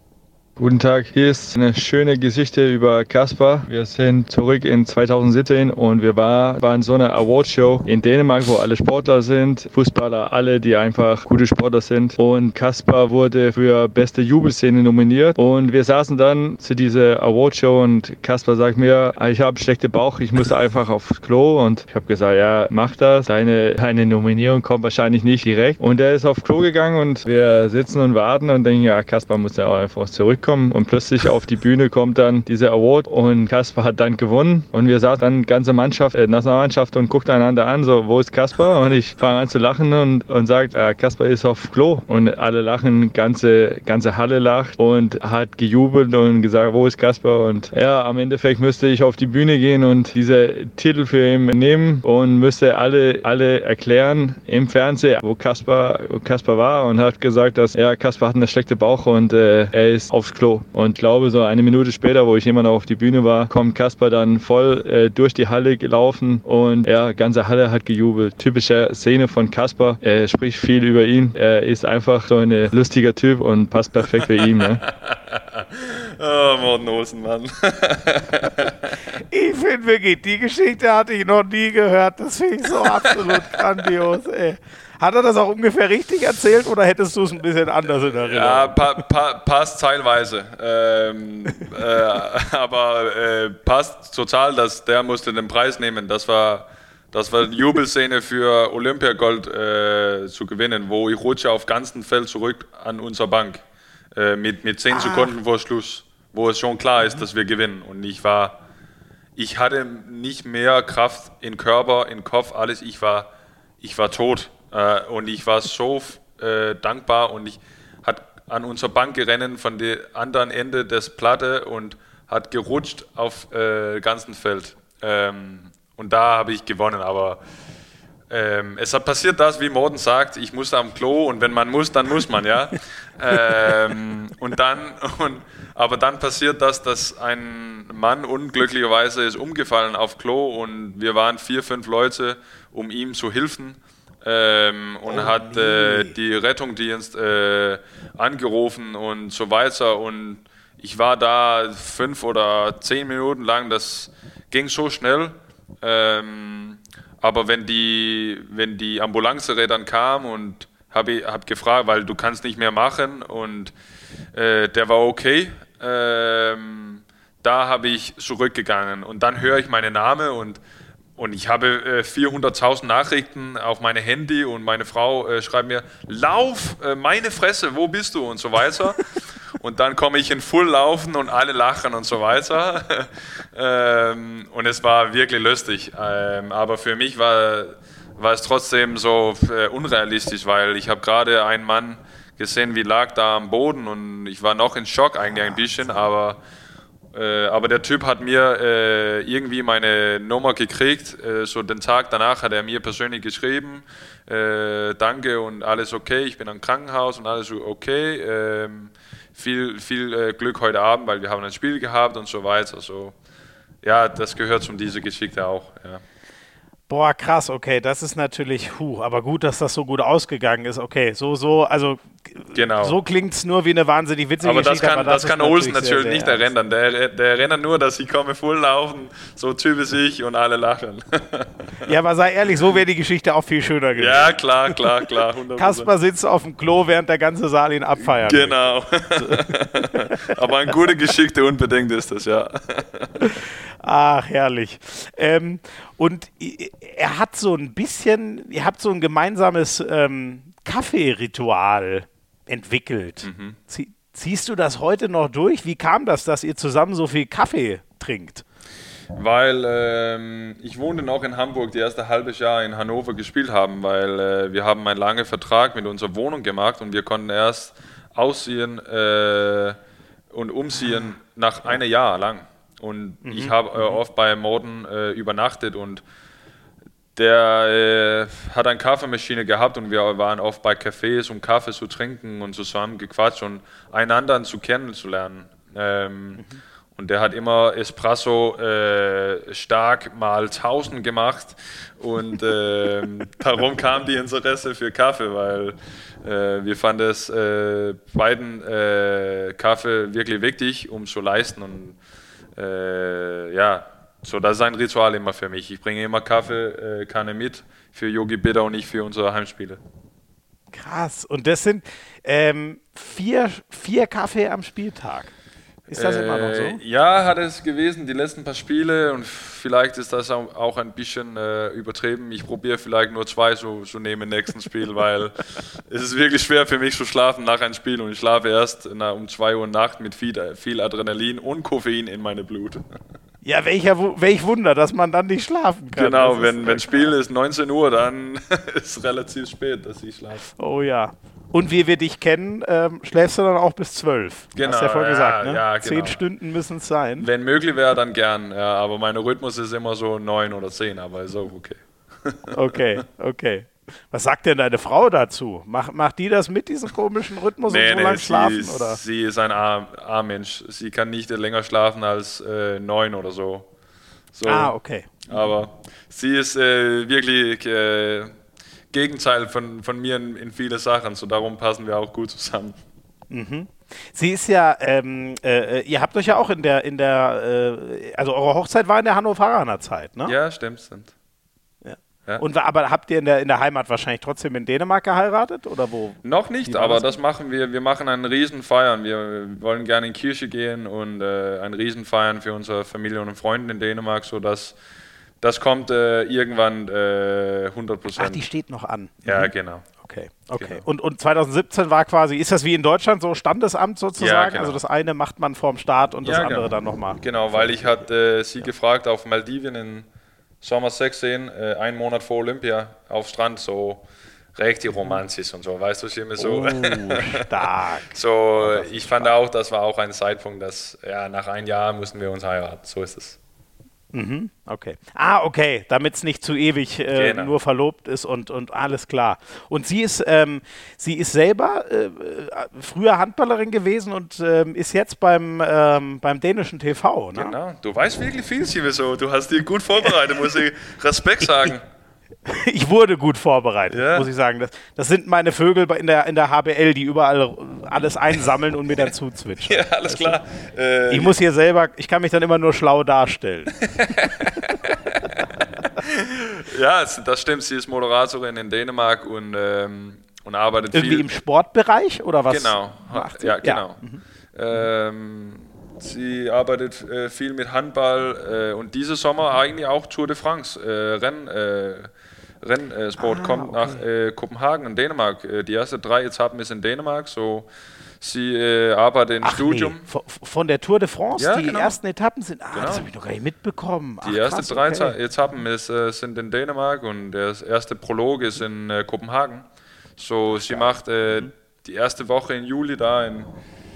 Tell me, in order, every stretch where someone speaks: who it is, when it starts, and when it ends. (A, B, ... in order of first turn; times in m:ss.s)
0:00.6-1:14.8 A
1:14.8-1:19.0 B
1:19.2-1:28.9 C
1:22.8-1:23.4 B
1:28.2-1:48.6 B
1:44.9-1:45.3 C
1:49.4-1:53.3 B
1:53.8-2:07.4 B
2:08.3-2:43.7 B
2:25.0-2:26.1 C
2:44.3-2:50.6 B
2:51.2-3:16.4 B
3:17.1-3:33.1 B
3:33.8-3:36.0 B
3:36.9-3:46.5 C
3:42.5-3:43.0 B
3:44.4-3:51.9 B
3:51.8-3:54.4 C
3:54.0-3:55.9 B
3:55.5-4:00.4 C
3:58.0-4:03.4 B
4:03.2-4:18.4 C
4:13.2-4:13.6 B
4:19.1-4:29.8 B
4:30.3-4:36.0 B
4:33.2-4:34.0 C
4:37.2-5:02.0 B
5:02.5-5:09.8 B
5:10.7-5:15.3 C
5:15.9-5:32.8 B
5:15.9-5:16.8 C
5:33.4-5:37.1 C
5:35.9-5:40.5 B
5:40.6-5:47.3 C
5:44.5-5:46.2 B
5:47.2-5:52.5 B
5:52.5-5:59.0 C
5:57.7-6:03.7 B
6:04.3-6:04.7 B
6:04.4-6:05.4 C
6:05.3-6:08.3 B
6:08.9-6:12.8 B
6:13.3-6:20.3 C
6:20.2-6:21.1 B
6:21.8-6:27.2 C
6:26.2-6:34.8 B
6:35.4-6:38.4 B
6:38.2-6:48.0 C
6:39.2-6:39.9 B
6:40.6-6:40.8 B
6:44.2-6:44.8 B
6:46.2-6:50.1 B
6:50.6-7:03.4 B
6:56.4-6:59.3 C
7:04.1-7:17.6 C
7:07.1-7:07.5 B
7:17.3-7:21.8 B
7:22.4-7:30.4 C
7:23.9-7:24.3 B
7:29.6-7:31.3 B
7:31.1-7:33.8 C
7:33.8-7:41.2 B
7:40.9-7:44.2 C
7:42.5-7:44.0 B
7:44.5-7:52.1 B
7:52.6-7:57.7 B
7:53.2-7:54.0 C
7:58.2-8:00.1 B
7:59.4-8:05.1 C
8:01.4-8:02.0 B
8:02.7-8:03.1 B
8:04.2-8:13.5 B
8:10.6-8:11.5 C